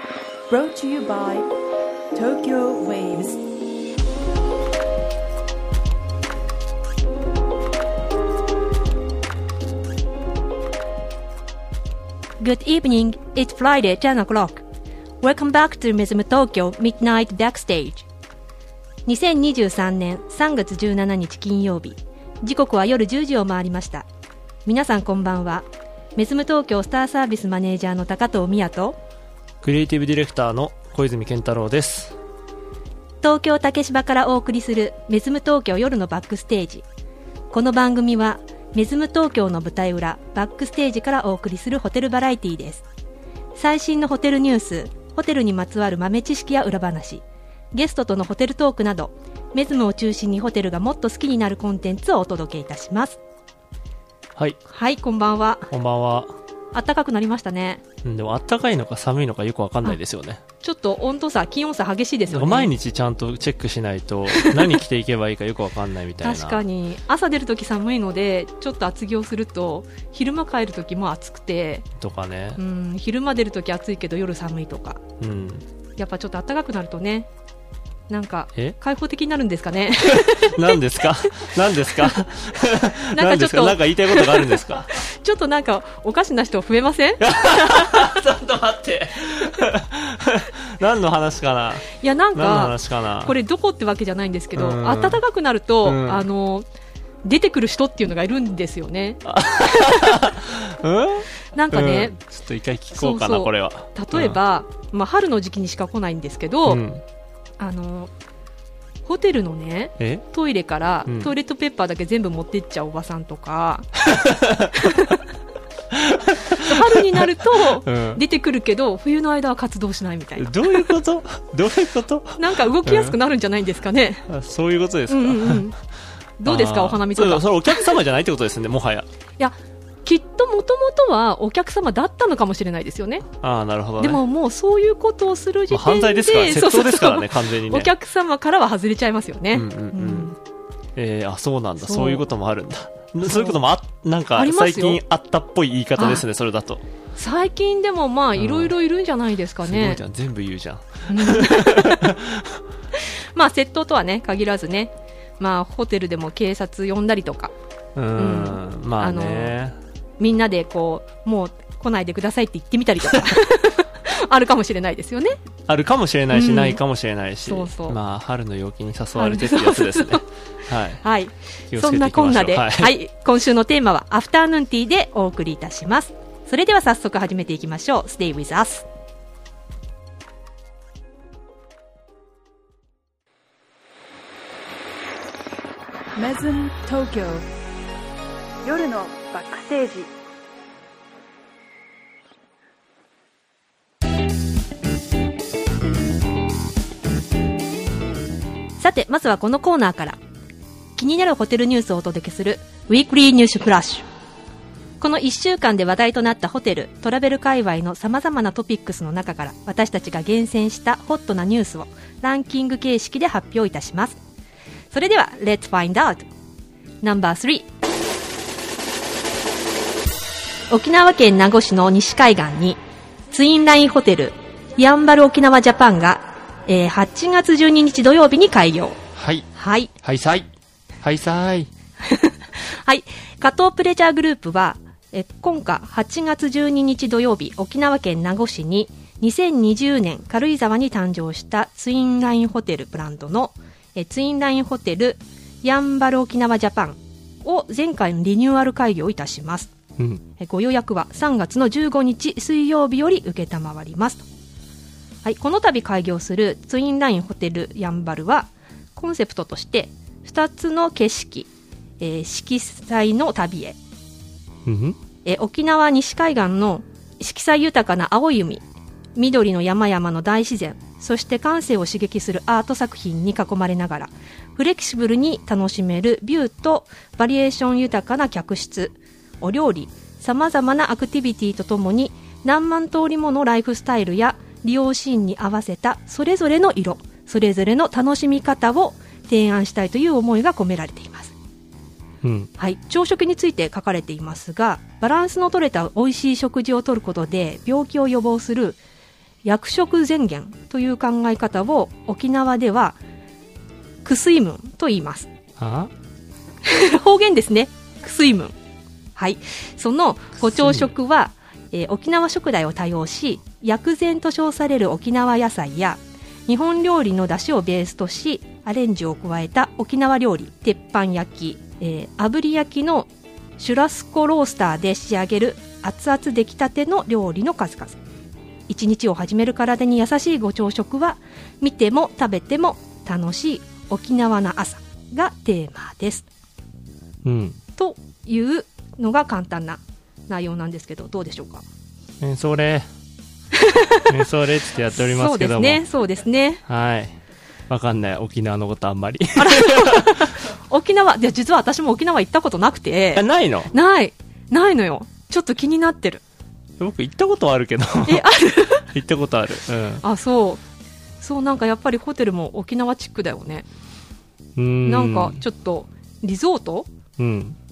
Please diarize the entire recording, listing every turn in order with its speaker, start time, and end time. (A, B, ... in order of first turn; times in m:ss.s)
0:00.5-0:01.5 A
0:02.1-0:03.4 A
0:12.4-0:14.6 B
0:15.2-0:18.1 B
0:19.1-0:24.1 B
0:24.7-0:29.0 B
0:29.6-0:32.2 C
0:33.2-0:36.9 B
0:37.5-0:42.8 B
0:43.6-0:53.2 B
0:54.7-0:55.7 B
0:55.7-0:56.3 C
0:56.7-0:57.8 B
0:58.0-1:00.4 C
1:00.6-1:02.7 B
1:02.3-1:06.6 C
1:04.3-1:04.6 B
1:06.2-1:11.9 B
1:12.0-1:12.6 C
1:12.6-1:15.0 B
1:15.2-1:15.6 C
1:16.0-1:17.3 B
1:18.1-1:21.5 B
1:20.0-1:25.0 C
1:23.1-1:28.0 B
1:27.2-1:33.4 C
1:31.9-1:36.7 B
1:34.6-1:35.2 C
1:35.8-1:36.3 C
1:37.2-1:40.3 B
1:39.2-1:44.4 C
1:41.6-1:42.2 B
1:42.9-1:46.8 B
1:46.6-1:47.0 C
1:47.6-1:48.1 B
1:49.0-1:53.9 B
1:50.0-1:50.2 C
1:51.1-1:51.3 C
1:54.1-1:54.9 C
1:54.8-1:55.2 B
1:55.9-1:58.2 C
1:56.6-2:00.9 B
2:00.4-2:03.2 C
2:02.4-2:04.3 B
2:04.3-2:05.7 C
2:05.1-2:05.8 B
2:06.4-2:07.8 B
2:06.5-2:09.1 C
2:09.4-2:13.3 B
2:13.4-2:14.2 C
2:14.0-2:20.4 B
2:15.7-2:17.9 C
2:19.5-2:20.3 C
2:21.0-2:26.8 C
2:21.8-2:22.2 B
2:23.2-2:23.6 B
2:24.4-2:25.0 B
2:26.0-2:26.2 B
2:27.2-2:30.0 B
2:28.4-2:28.7 C
2:29.6-2:32.6 C
2:31.1-2:32.1 B
2:32.9-2:37.5 B
2:38.0-2:39.8 C
2:38.2-2:39.6 B
2:40.2-2:45.4 B
2:45.7-2:51.0 C
2:46.3-2:46.8 B
2:47.4-2:48.0 B
2:49.2-2:50.2 B
2:51.0-2:58.9 B
2:51.7-2:52.9 C
3:06.2-3:07.5 A
3:08.6-3:10.1 A
3:18.8-3:20.2 B
3:21.0-3:24.1 B
3:25.0-3:34.2 B
3:34.9-3:36.3 B
3:37.0-3:37.7 B
3:40.7-3:42.8 B
3:43.3-3:49.0 B
3:49.2-3:49.5 C
3:49.6-3:49.9 B
3:50.0-3:50.5 C
3:51.0-3:51.7 C
3:52.0-4:09.7 B
4:10.4-4:14.2 B
4:15.2-4:23.8 B
4:24.7-4:25.0 C
4:25.2-4:28.6 B
4:29.2-4:51.3 B
4:52.2-4:52.5 C
4:52.6-4:58.8 B
4:59.4-5:03.0 B
5:04.0-5:05.3 B
5:05.6-5:05.9 C
5:06.6-5:08.6 B
5:09.2-5:28.0 B
5:10.5-5:10.9 C
5:28.7-5:36.3 B
5:37.2-5:37.6 C
5:37.8-5:41.6 B
5:42.2-5:42.9 C
5:43.5-5:44.1 B
5:44.1-5:45.8 C
5:44.9-5:46.6 B
5:46.7-5:47.2 C
5:47.7-5:50.2 C
5:49.4-5:56.2 B
5:53.2-5:53.7 C
5:56.8-5:58.3 C
5:58.0-5:58.8 B
5:58.8-6:00.0 C
6:00.0-6:00.6 B
6:01.2-6:03.7 B
6:04.6-6:05.4 C
6:04.8-6:06.9 B
6:07.2-6:07.6 C